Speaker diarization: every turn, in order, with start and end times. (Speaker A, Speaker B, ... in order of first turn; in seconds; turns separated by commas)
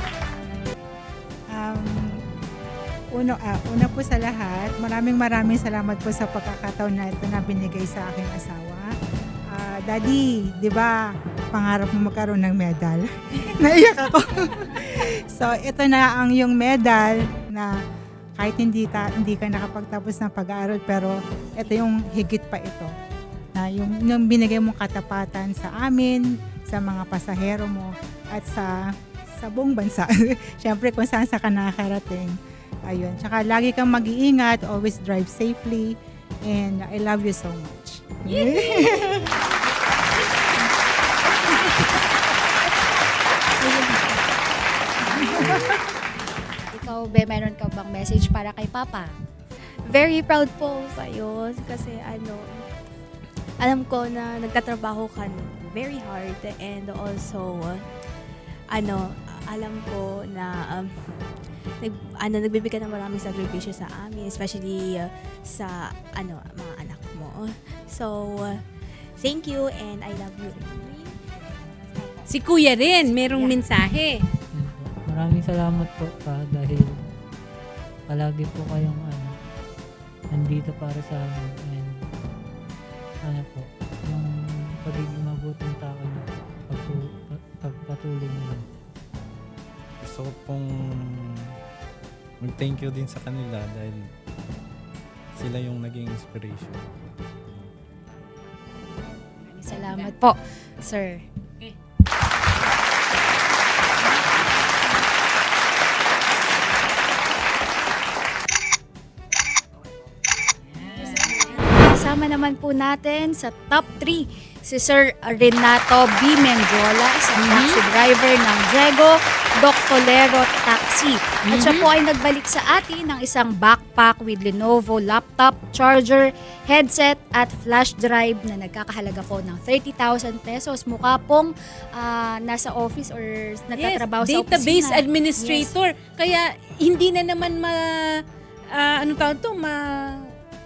Speaker A: 1.5-2.2, Speaker A: 3.1-8.9, Speaker A: 9.5-17.8, Speaker A: 18.4-22.9, Speaker A: 23.5-39.3, Speaker B: 38.3-39.4, Speaker B: 41.3-42.3, Speaker B: 43.6-44.1, Speaker B: 45.2-45.6, Speaker C: 46.7-49.1, Speaker D: 49.9-52.7, Speaker D: 53.6-57.9, Speaker D: 58.7-68.6, Speaker D: 69.1-71.2, Speaker B: 72.3-74.2, Speaker C: 73.2-73.5, Speaker E: 74.5-77.1, Speaker E: 78.1-79.3, Speaker E: 80.3-82.1, Speaker E: 83.2-88.6, Speaker F: 90.0-91.5, Speaker F: 92.4-94.1, Speaker F: 95.3-97.0, Speaker C: 99.4-101.2, Speaker B: 99.7-100.1, Speaker B: 104.0-105.4, Speaker B: 110.7-112.1, Speaker C: 111.0-135.8, Speaker B: 117.4-117.8, Speaker B: 121.5-121.9, Speaker B: 133.8-138.2, Speaker B: 138.7-140.3